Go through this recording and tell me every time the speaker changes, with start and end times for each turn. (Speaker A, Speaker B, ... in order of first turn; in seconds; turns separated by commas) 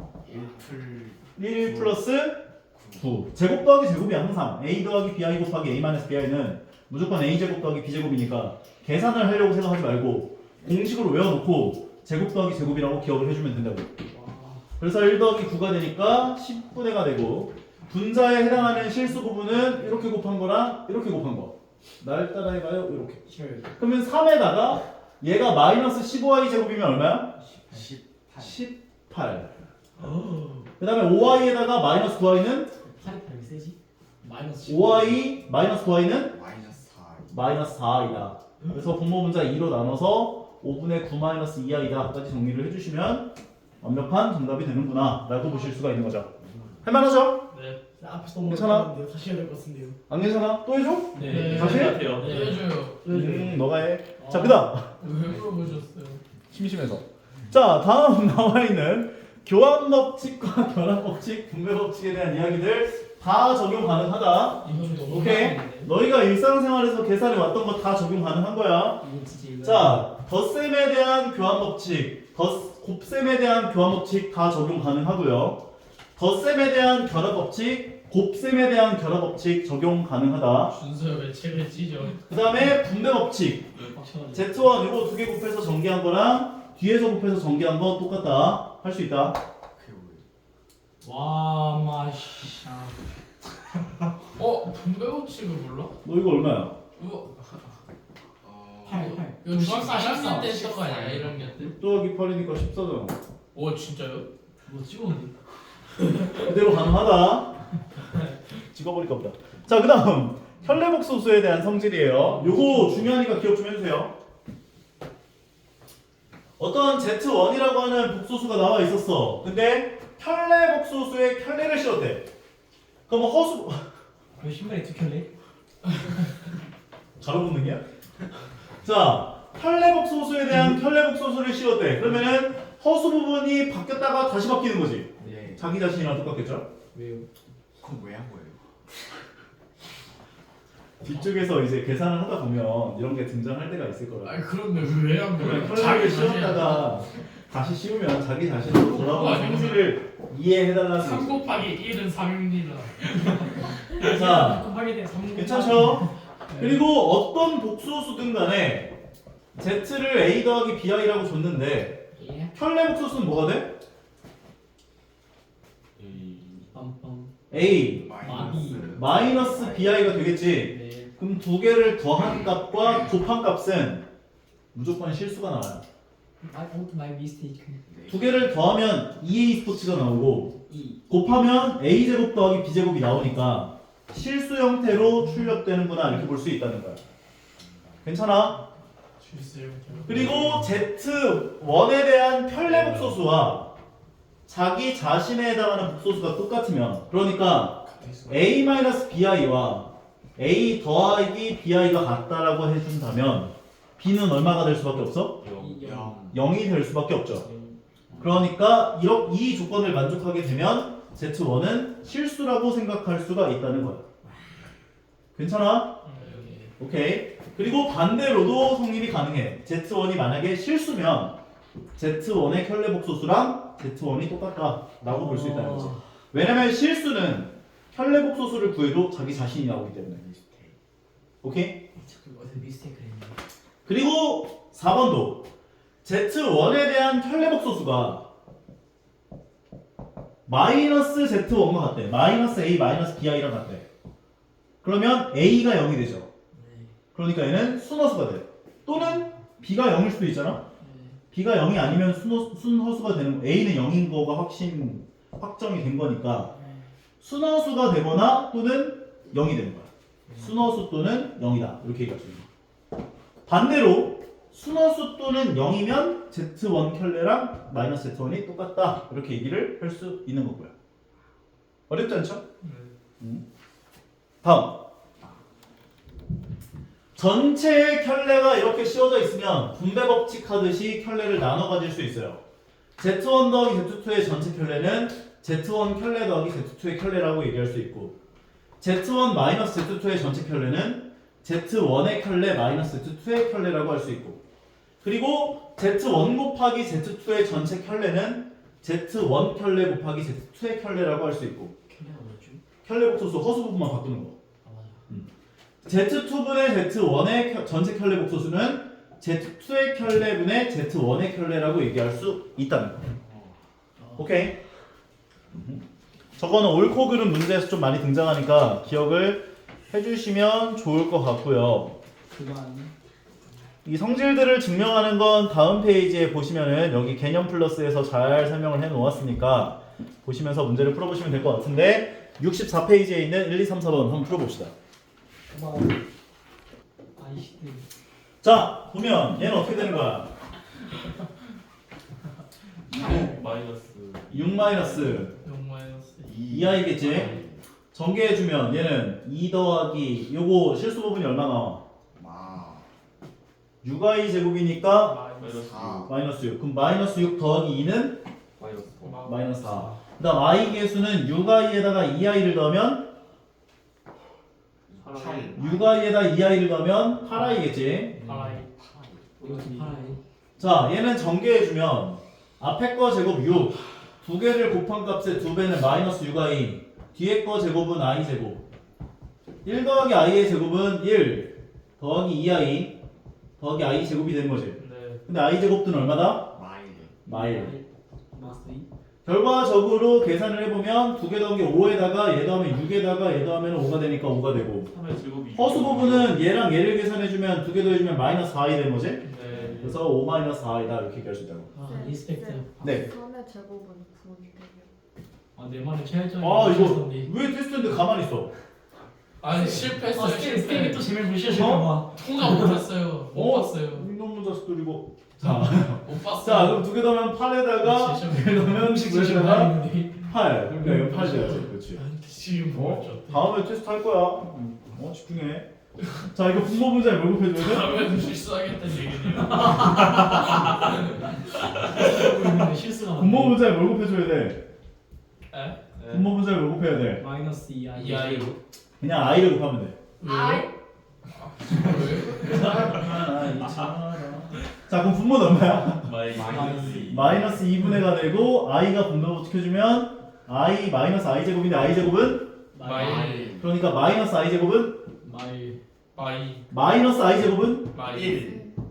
Speaker A: 0.2-2.0, Speaker B: 1.4-13.9, Speaker A: 2.7-3.3, Speaker C: 14.1-14.7, Speaker B: 14.8-23.2, Speaker C: 18.7-18.9, Speaker C: 23.2-23.8, Speaker B: 23.8-27.4, Speaker C: 27.4-27.9, Speaker A: 27.7-28.6, Speaker B: 28.4-29.5, Speaker C: 30.0-30.7, Speaker B: 30.8-32.7, Speaker C: 32.8-35.4, Speaker B: 34.6-36.4, Speaker A: 36.1-37.7, Speaker B: 37.3-46.3, Speaker A: 46.4-46.8, Speaker B: 46.8-47.4, Speaker D: 47.5-47.8, Speaker C: 48.0-50.0, Speaker B: 48.4-48.9, Speaker B: 50.1-52.1, Speaker C: 51.1-54.7, Speaker D: 51.3-53.1, Speaker E: 51.4-52.4, Speaker B: 53.0-54.9, Speaker D: 55.0-56.2, Speaker B: 56.5-69.0, Speaker C: 64.6-65.9, Speaker D: 64.6-65.8, Speaker C: 69.0-70.1, Speaker B: 69.6-75.6, Speaker B: 76.2-80.7, Speaker D: 80.7-82.2, Speaker B: 82.3-89.4, Speaker C: 83.9-84.7, Speaker A: 89.7-90.2, Speaker C: 91.0-92.9, Speaker D: 94.3-95.9, Speaker B: 96.0-96.8, Speaker D: 97.0-97.6, Speaker A: 98.4-99.3, Speaker C: 98.8-100.7, Speaker D: 99.4-101.7, Speaker A: 99.8-101.7, Speaker B: 101.8-103.2, Speaker D: 103.5-104.3, Speaker C: 104.6-105.3, Speaker D: 106.0-106.4, Speaker B: 106.3-107.6, Speaker B: 108.7-114.1, Speaker C: 112.3-113.0, Speaker B: 116.6-122.3, Speaker B: 123.1-123.9, Speaker C: 124.4-125.3, Speaker B: 127.2-127.8, Speaker B: 128.8-136.7, Speaker C: 130.5-130.8, Speaker A: 135.2-135.7, Speaker C: 136.9-137.3, Speaker A: 137.8-138.6, Speaker B: 141.0-144.4, Speaker D: 144.2-147.1, Speaker B: 145.3-151.5, Speaker D: 148.7-150.0, Speaker D: 151.0-154.1, Speaker C: 153.9-156.8, Speaker B: 154.0-154.7, Speaker B: 155.3-159.0, Speaker D: 156.5-156.8, Speaker B: 159.5-163.8, Speaker C: 162.2-162.5, Speaker E: 166.0-166.4, Speaker A: 166.0-166.7, Speaker C: 166.7-169.0, Speaker B: 167.5-174.1, Speaker A: 167.6-170.3, Speaker C: 170.5-171.1, Speaker B: 174.7-175.8, Speaker C: 176.4-177.8, Speaker A: 177.9-178.7, Speaker B: 178.1-180.6, Speaker C: 180.7-181.0, Speaker B: 181.1-187.0, Speaker B: 188.0-188.6, Speaker D: 189.2-190.7, Speaker B: 190.1-193.7, Speaker E: 192.8-193.0, Speaker B: 194.5-205.4, Speaker A: 197.8-198.6, Speaker A: 205.4-206.6, Speaker C: 205.6-206.2, Speaker B: 206.3-207.4, Speaker C: 207.3-208.2, Speaker B: 208.2-214.0, Speaker C: 214.2-214.6, Speaker B: 215.3-216.0, Speaker D: 216.0-216.5, Speaker C: 216.1-216.7, Speaker B: 216.8-221.4, Speaker B: 221.9-230.2, Speaker C: 225.1-226.0, Speaker A: 229.3-230.7, Speaker B: 231.4-231.8, Speaker C: 231.9-233.4, Speaker B: 233.8-235.5, Speaker B: 236.0-238.3, Speaker B: 240.4-243.8, Speaker B: 244.8-246.3, Speaker C: 246.5-246.9, Speaker B: 247.1-250.6, Speaker C: 248.9-249.2, Speaker C: 250.8-251.2, Speaker B: 251.3-256.5, Speaker C: 256.5-256.8, Speaker B: 257.2-262.4, Speaker C: 260.3-260.6, Speaker B: 263.4-270.7, Speaker B: 271.9-272.4, Speaker D: 272.6-272.9, Speaker B: 274.4-274.7, Speaker B: 277.1-282.4, Speaker B: 283.0-288.1, Speaker B: 288.8-294.4, Speaker B: 295.0-301.7, Speaker C: 301.9-302.6, Speaker B: 302.9-304.4, Speaker C: 304.6-305.0, Speaker B: 305.8-313.2, Speaker A: 313.2-313.5, Speaker C: 314.0-314.5, Speaker B: 314.2-314.6, Speaker B: 315.5-315.8, Speaker B: 316.4-322.0, Speaker C: 322.3-322.9, Speaker B: 323.8-334.7, Speaker C: 335.5-336.0, Speaker C: 337.2-337.8, Speaker B: 338.4-340.3, Speaker E: 342.9-345.2, Speaker B: 342.9-343.3, Speaker B: 344.3-345.3, Speaker D: 345.4-346.3, Speaker A: 346.2-347.6, Speaker B: 346.5-347.3, Speaker E: 347.1-347.4, Speaker B: 347.9-351.8, Speaker A: 352.1-352.9, Speaker B: 353.8-355.2, Speaker D: 355.0-355.9, Speaker E: 355.4-356.1, Speaker A: 355.5-356.2, Speaker B: 356.1-358.2, Speaker E: 358.6-359.2, Speaker D: 359.0-360.0, Speaker B: 359.2-363.1, Speaker A: 364.9-365.9, Speaker E: 365.0-365.8, Speaker B: 365.6-368.2, Speaker C: 368.1-368.6, Speaker D: 368.2-368.7, Speaker A: 368.7-369.5, Speaker C: 369.4-370.2, Speaker E: 369.4-370.2, Speaker B: 370.6-378.6, Speaker B: 379.6-383.0, Speaker B: 383.6-386.6, Speaker D: 384.8-385.2, Speaker A: 386.5-387.2, Speaker B: 387.2-387.8, Speaker C: 387.2-388.9, Speaker B: 389.2-394.9, Speaker E: 394.9-396.4, Speaker B: 395.5-399.2, Speaker D: 399.2-399.8, Speaker C: 399.4-399.9, Speaker E: 399.5-399.8, Speaker B: 399.8-401.7, Speaker C: 401.7-402.9, Speaker F: 401.8-404.9, Speaker B: 402.8-403.1, Speaker C: 405.5-407.3, Speaker B: 406.4-408.5, Speaker D: 409.4-411.1, Speaker C: 409.5-412.8, Speaker B: 411.5-411.9, Speaker D: 412.1-414.1, Speaker B: 413.3-422.0, Speaker D: 415.4-416.9, Speaker D: 417.8-418.9, Speaker C: 418.6-421.7, Speaker D: 421.9-423.5, Speaker B: 422.7-425.7, Speaker B: 426.3-428.1, Speaker D: 427.5-431.7, Speaker C: 429.5-430.9, Speaker C: 431.7-433.6, Speaker B: 433.1-434.6, Speaker D: 435.5-435.8, Speaker E: 436.0-436.3, Speaker B: 436.1-437.2, Speaker C: 437.2-438.6, Speaker D: 437.9-438.6, Speaker B: 439.0-440.0, Speaker D: 440.2-440.7, Speaker F: 440.2-440.7, Speaker D: 441.3-443.0, Speaker B: 442.4-446.2, Speaker E: 446.0-447.3, Speaker A: 446.2-447.6, Speaker C: 446.4-447.9, Speaker B: 447.0-452.6, Speaker C: 452.7-453.5, Speaker D: 452.8-453.6, Speaker A: 452.8-453.8, Speaker B: 453.6-455.0, Speaker C: 455.2-455.8, Speaker D: 456.1-456.7, Speaker B: 456.7-457.9, Speaker D: 457.9-458.5, Speaker A: 457.9-458.7, Speaker F: 458.2-458.8